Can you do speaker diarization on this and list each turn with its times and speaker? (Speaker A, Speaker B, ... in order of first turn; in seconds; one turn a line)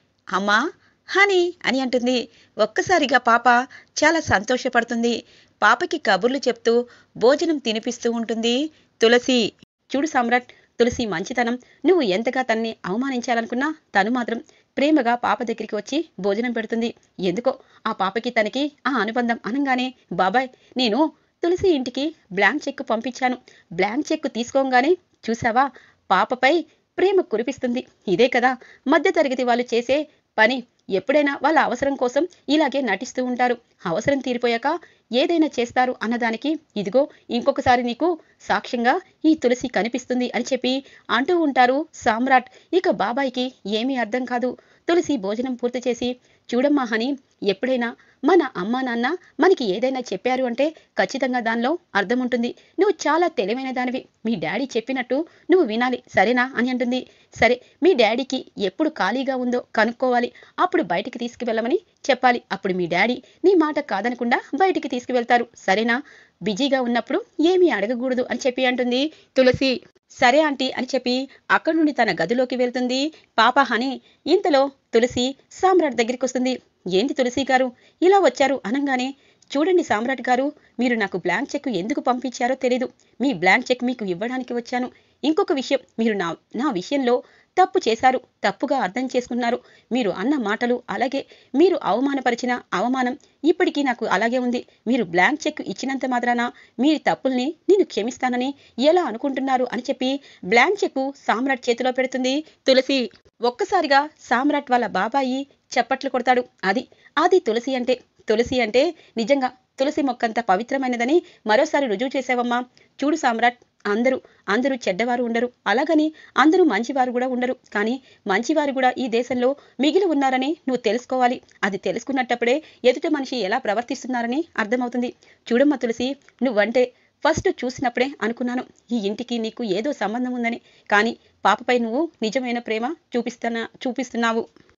Speaker A: 0.3-0.6
Speaker A: 1.1-134.4